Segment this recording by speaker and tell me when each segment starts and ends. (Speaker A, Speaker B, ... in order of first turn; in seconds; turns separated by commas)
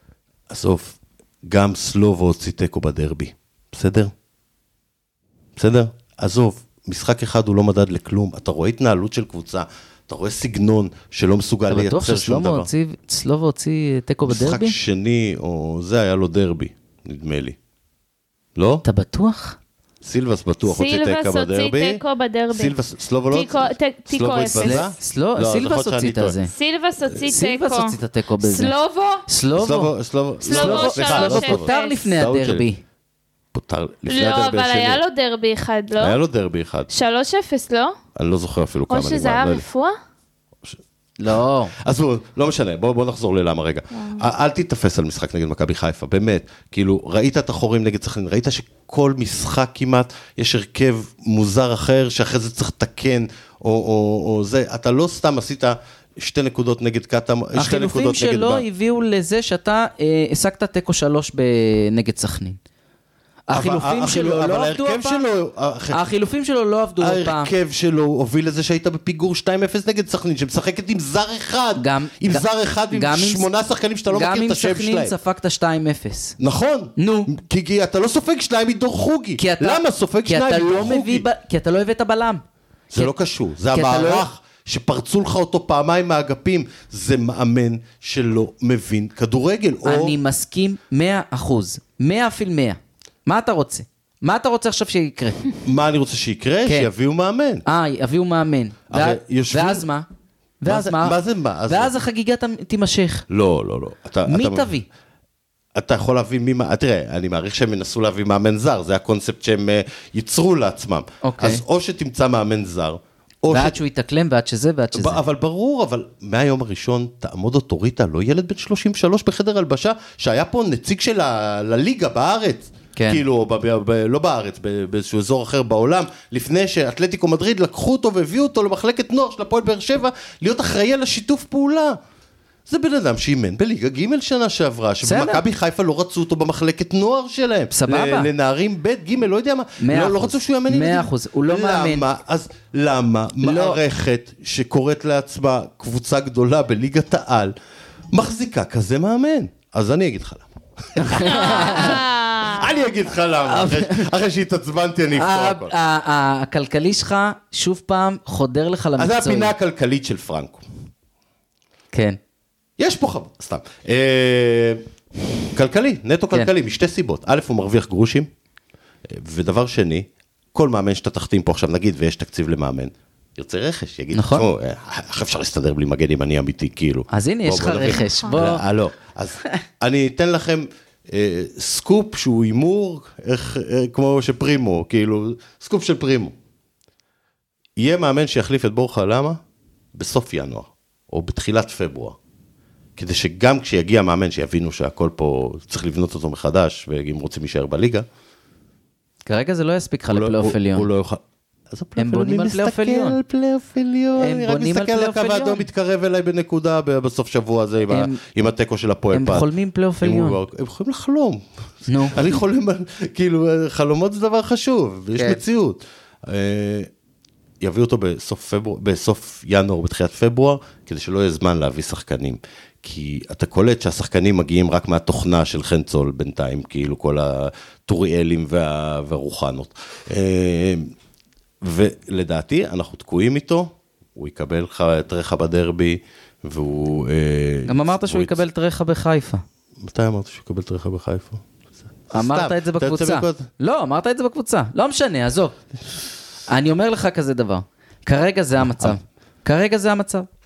Speaker A: 0.5-4.1, Speaker A: 5.6-12.7, Speaker B: 11.7-14.8, Speaker A: 14.3-17.6, Speaker A: 18.6-18.9, Speaker B: 18.8-19.6, Speaker A: 20.0-26.4, Speaker C: 20.6-22.8, Speaker C: 23.3-24.8, Speaker B: 24.5-26.5, Speaker C: 26.5-29.3, Speaker B: 27.1-28.7, Speaker B: 29.3-29.9, Speaker A: 29.6-32.7, Speaker C: 30.4-32.1, Speaker B: 30.5-32.8, Speaker A: 33.5-35.0, Speaker C: 34.1-36.2, Speaker A: 36.0-36.9, Speaker C: 36.9-38.0, Speaker A: 38.2-39.6, Speaker C: 38.9-40.0, Speaker B: 41.2-41.7, Speaker A: 41.3-58.6, Speaker C: 44.0-44.2, Speaker B: 57.5-62.6, Speaker B: 63.5-65.2, Speaker A: 63.5-66.0, Speaker B: 65.9-67.5, Speaker A: 67.0-75.2, Speaker B: 71.8-73.5, Speaker B: 74.1-76.4, Speaker A: 76.4-81.3, Speaker B: 77.0-77.3, Speaker B: 79.4-82.4, Speaker A: 82.9-90.2, Speaker B: 83.7-84.3, Speaker B: 89.8-95.5, Speaker A: 95.6-97.6, Speaker B: 97.7-100.1, Speaker A: 98.9-99.9, Speaker B: 100.6-103.2, Speaker A: 100.7-101.9, Speaker A: 103.3-104.7, Speaker B: 104.3-104.9, Speaker A: 105.8-113.8, Speaker B: 111.2-111.6, Speaker B: 113.5-115.2, Speaker A: 114.9-132.0, Speaker B: 123.0-123.2, Speaker A: 132.7-147.5, Speaker B: 135.0-135.4, Speaker B: 137.7-138.3, Speaker B: 139.8-142.1, Speaker B: 143.4-143.8, Speaker A: 148.1-155.7, Speaker B: 151.0-152.0, Speaker C: 151.2-152.7, Speaker B: 153.5-154.1, Speaker B: 155.2-159.5, Speaker A: 159.0-160.6, Speaker B: 161.9-162.2, Speaker A: 162.8-164.8, Speaker A: 165.5-168.3, Speaker A: 169.1-186.3, Speaker B: 174.1-174.5, Speaker B: 177.1-178.6, Speaker C: 178.1-178.4, Speaker A: 187.8-189.4, Speaker A: 189.9-192.2, Speaker A: 193.0-198.1, Speaker B: 199.3-200.9, Speaker A: 200.1-209.5, Speaker B: 202.0-203.2, Speaker B: 204.2-205.7, Speaker B: 207.9-208.2, Speaker B: 209.1-210.4, Speaker A: 210.0-216.9, Speaker B: 211.9-212.3, Speaker B: 215.2-215.4, Speaker A: 217.6-230.9, Speaker A: 231.6-238.4, Speaker B: 237.7-239.4, Speaker A: 239.8-241.4, Speaker A: 242.1-243.5, Speaker B: 242.1-245.6, Speaker B: 246.5-250.3, Speaker A: 248.7-249.0